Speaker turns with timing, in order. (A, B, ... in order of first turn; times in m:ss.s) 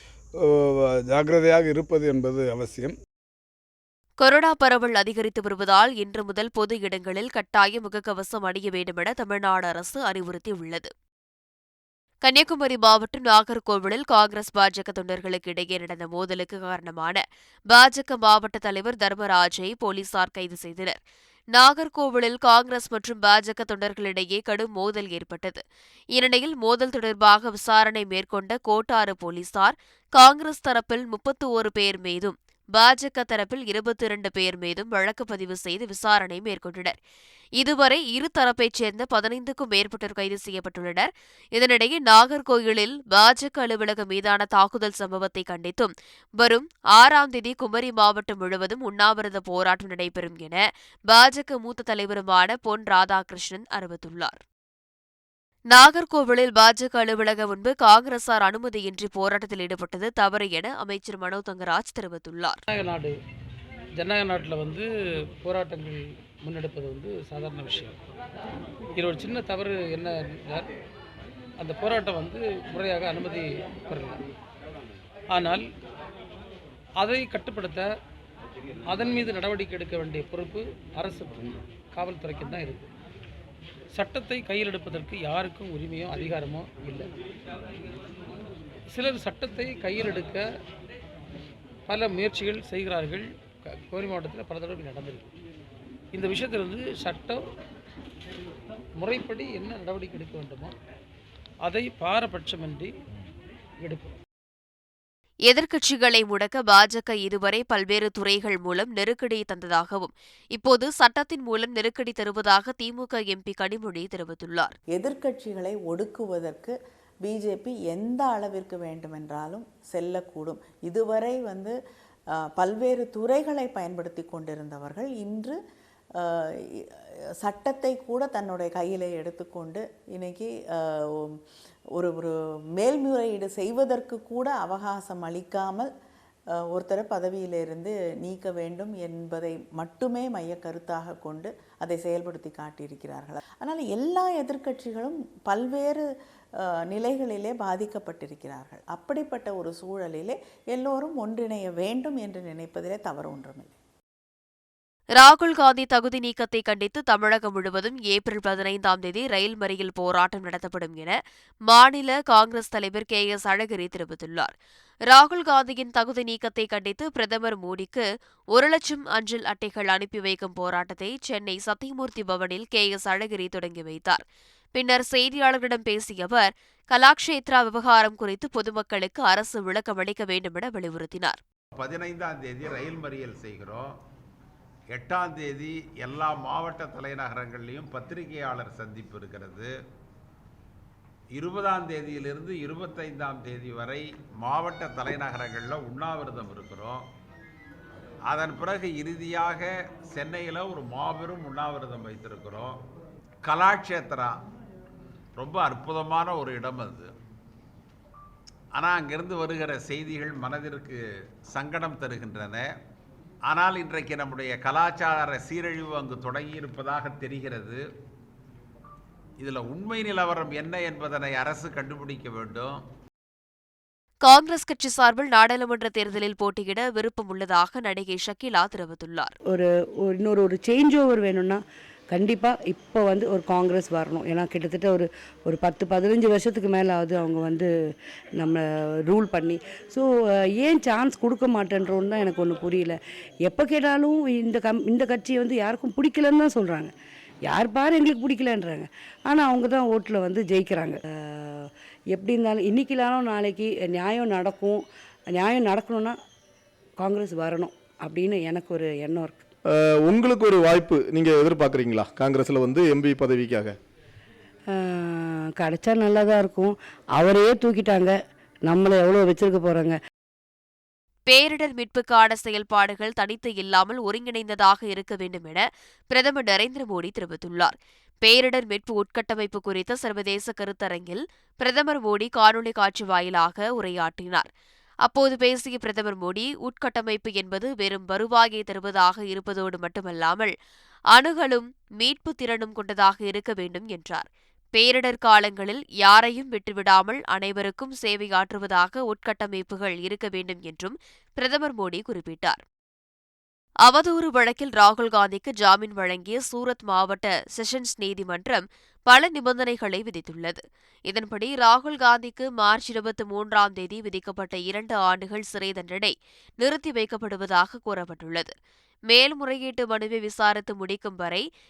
0:00.6-0:02.9 A
0:04.2-0:10.9 B
0:12.2-0:21.0 B
0:21.6-0:25.6 B
0:26.2-0:37.0 B
0:37.6-0:54.4 B
0:55.7-1:02.6 B
1:02.7-1:03.1 C
1:04.0-1:04.9 C
1:05.4-1:08.0 C
1:09.0-1:10.7 C
1:11.6-1:14.2 C
1:15.3-1:15.7 C
1:17.0-1:17.9 C
1:18.9-1:22.9 C
1:23.9-1:27.1 C
1:28.9-1:30.5 C
1:31.9-1:35.3 C
1:36.1-1:37.4 C
1:39.0-1:40.7 C
1:41.6-1:42.9 C
1:43.8-1:44.2 C
1:45.5-1:54.8 B
1:55.0-2:01.7 D
2:02.6-2:05.6 D
2:07.4-2:10.5 D
2:12.0-2:15.9 D
2:16.7-2:26.0 D
2:26.9-2:33.7 D
2:35.2-2:41.2 B
2:41.7-2:44.5 B
2:45.1-2:54.2 B
2:54.8-3:01.4 B
3:01.8-3:03.9 E
3:04.9-3:09.7 E
3:11.4-3:17.0 E
3:18.3-3:22.8 E
3:23.4-3:24.3 E
3:25.4-3:27.1 E
3:28.8-3:31.0 E
3:31.5-3:32.7 E
3:33.5-3:37.8 E
3:39.4-3:42.8 E
3:44.2-3:49.3 B
3:49.5-3:57.7 F
3:58.4-4:06.9 F
4:07.5-4:11.0 F
4:11.6-4:14.8 F
4:15.3-4:16.2 F
4:17.0-4:19.4 F
4:20.0-4:23.7 G
4:24.8-4:30.0 F
4:31.3-4:44.5 B
4:45.0-4:50.5 B
4:51.1-5:02.6 B
5:03.9-5:18.5 B
5:19.1-5:21.4 B